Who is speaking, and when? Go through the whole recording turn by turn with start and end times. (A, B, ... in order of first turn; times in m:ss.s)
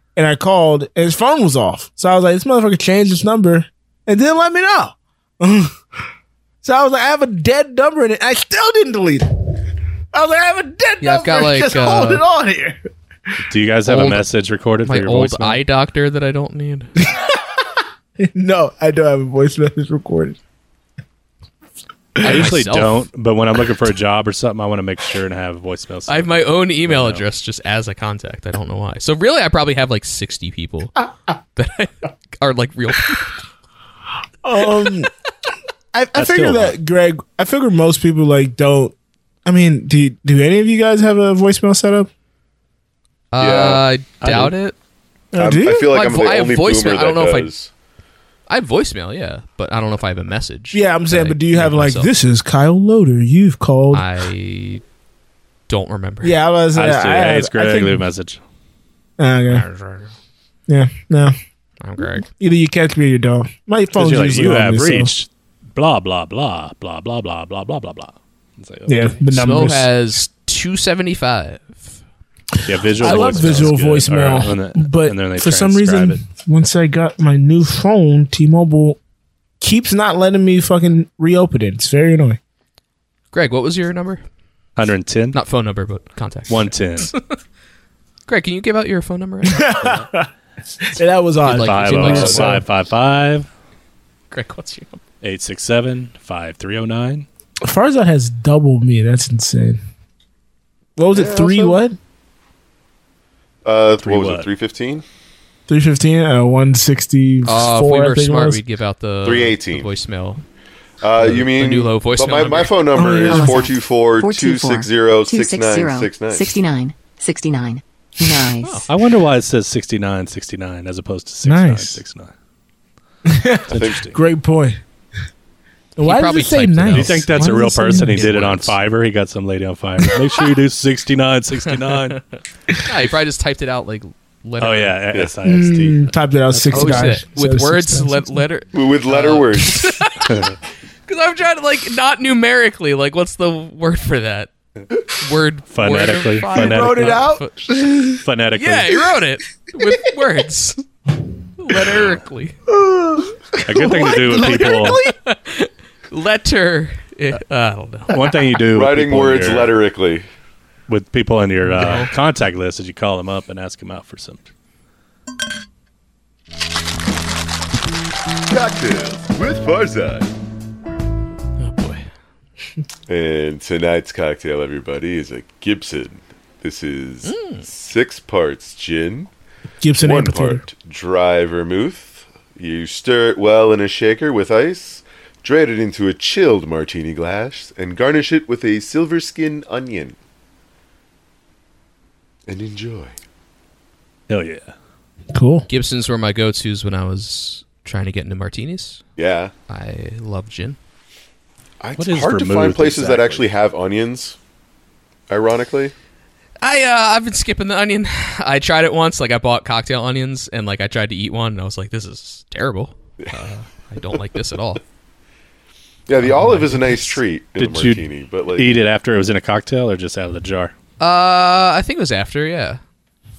0:00.2-0:05.8 A
0:06.6-0:09.6 A
0:10.1-0:12.8 A
0:11.0-0:12.2 B
0:13.5-0:15.6 C
0:13.8-0:14.3 B
0:14.8-0:16.9 B
0:17.0-0:20.4 A
0:22.2-0:22.5 A
0:22.2-0:23.0 B
0:22.2-0:27.2 C
0:26.1-0:30.9 B
0:31.6-0:33.3 B
0:34.4-0:35.1 A
0:35.9-0:38.9 A
0:36.1-0:36.8 C
0:39.4-0:42.1 A
0:43.3-0:44.8 B
0:43.4-0:43.8 D
0:44.2-0:44.5 C
0:45.3-0:45.9 A
0:45.4-0:47.7 D
0:45.9-0:47.5 B
0:48.5-0:52.1 B
0:50.7-0:54.0 A
0:53.9-0:54.8 B
0:55.7-0:56.4 B
0:56.2-0:58.0 A
0:56.7-0:58.4 C
0:59.2-0:59.6 A
0:59.5-1:00.1 B
1:00.7-1:01.3 A
1:01.8-1:02.2 B
1:02.0-1:05.1 A
1:03.9-1:09.3 C
1:08.9-1:09.9 A
1:09.3-1:11.9 B
1:12.6-1:16.2 C
1:12.9-1:19.0 A
1:13.0-1:13.7 B
1:19.6-1:22.4 A
1:23.3-1:24.2 B
1:24.8-1:25.4 C
1:25.3-1:27.4 B
1:26.5-1:27.1 C
1:28.3-1:29.9 B
1:29.4-1:30.3 A
1:30.8-1:32.6 A
1:31.4-1:32.6 B
1:31.6-1:33.5 C
1:34.3-1:35.0 B
1:35.2-1:37.2 C
1:37.6-1:39.8 A
1:41.0-1:42.0 A
1:41.1-1:41.8 D
1:43.6-1:45.0 D
1:44.0-1:44.5 C
1:45.7-1:48.6 A
1:47.4-1:50.4 B
1:49.2-1:49.9 D
1:51.0-1:56.6 D
1:51.2-1:52.8 B
1:52.9-1:53.6 A
1:53.3-1:58.9 E
1:58.6-1:58.9 B
1:58.9-2:02.3 C
2:01.4-2:02.0 A
2:03.2-2:04.8 A
2:03.7-2:04.2 C
2:03.7-2:04.0 D
2:06.0-2:08.3 A
2:06.0-2:08.8 B
2:06.9-2:12.2 C
2:12.8-2:15.0 B
2:14.6-2:17.2 C
2:15.4-2:18.4 A
2:16.7-2:20.4 B
2:18.7-2:20.0 D
2:20.2-2:20.6 C
2:21.1-2:24.5 B
2:25.2-2:27.5 B
2:25.7-2:27.2 C
2:26.5-2:28.2 A
2:28.2-2:29.0 C
2:28.5-2:30.8 B
2:31.6-2:32.6 B
2:32.7-2:35.1 A
2:33.6-2:35.0 C
2:34.9-2:38.1 B
2:38.1-2:39.8 C
2:38.7-2:40.2 D
2:40.9-2:44.5 C
2:41.8-2:42.1 B
2:48.5-2:50.3 D
2:51.6-2:52.0 B
2:53.1-2:59.3 D
2:57.2-2:57.6 B
2:59.8-3:00.6 A
3:00.0-3:10.2 D
3:12.5-3:13.1 D
3:14.3-3:14.7 C
3:15.3-3:15.6 A
3:15.7-3:19.0 B
3:19.2-3:19.5 D
3:19.7-3:20.8 B
3:21.8-3:24.4 D
3:22.0-3:23.5 C
3:25.3-3:25.9 D
3:26.6-3:34.8 B
3:36.1-3:38.8 D
3:36.2-3:37.2 B
3:37.6-3:40.7 C
3:41.0-3:42.8 B